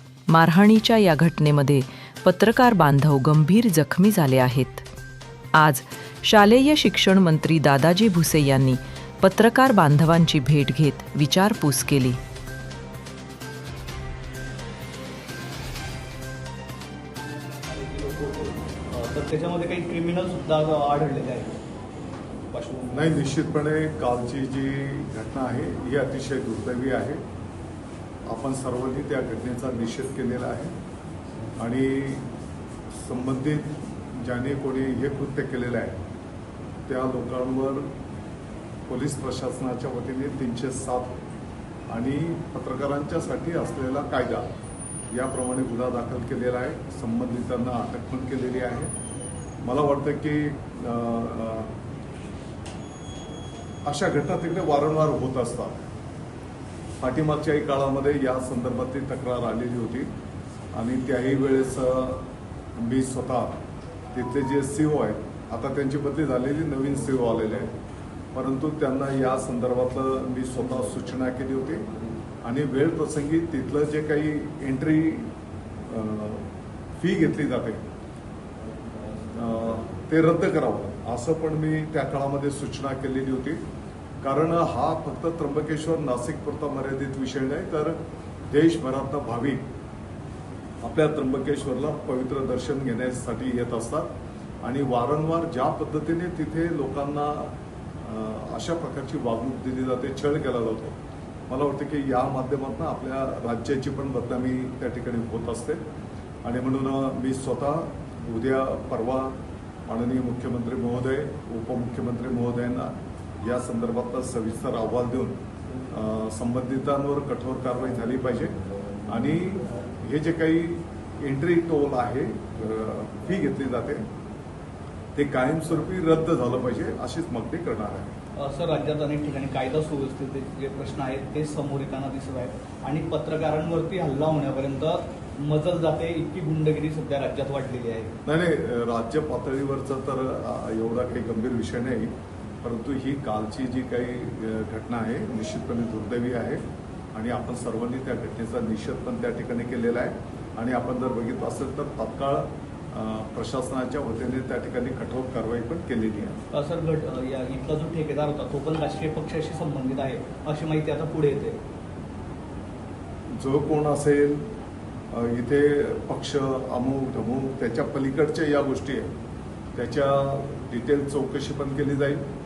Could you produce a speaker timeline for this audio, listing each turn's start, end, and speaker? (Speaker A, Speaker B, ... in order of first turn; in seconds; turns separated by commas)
Speaker A: 0.3-4.9, Speaker A: 5.6-12.2, Speaker B: 17.7-21.6, Speaker B: 22.5-23.2, Speaker C: 22.9-27.2, Speaker C: 28.3-30.7, Speaker C: 31.6-32.3, Speaker C: 33.0-36.0, Speaker C: 36.9-37.9, Speaker C: 38.9-41.2, Speaker C: 41.9-44.5, Speaker C: 45.1-48.9, Speaker C: 49.6-51.7, Speaker C: 53.9-55.9, Speaker C: 57.0-60.1, Speaker C: 60.7-62.2, Speaker C: 62.8-63.5, Speaker C: 64.1-67.7, Speaker C: 68.3-71.9, Speaker C: 72.4-75.3, Speaker C: 75.9-77.8, Speaker C: 79.3-83.6, Speaker C: 84.2-88.0, Speaker C: 88.5-89.7, Speaker C: 90.8-94.1, Speaker C: 94.6-101.0, Speaker C: 101.5-105.8, Speaker C: 106.4-115.4, Speaker C: 115.9-124.0, Speaker C: 125.2-128.1, Speaker B: 128.4-138.1, Speaker C: 138.2-146.6, Speaker C: 147.2-156.4, Speaker B: 156.5-161.6, Speaker C: 163.4-164.5, Speaker C: 165.1-169.1, Speaker C: 169.7-172.2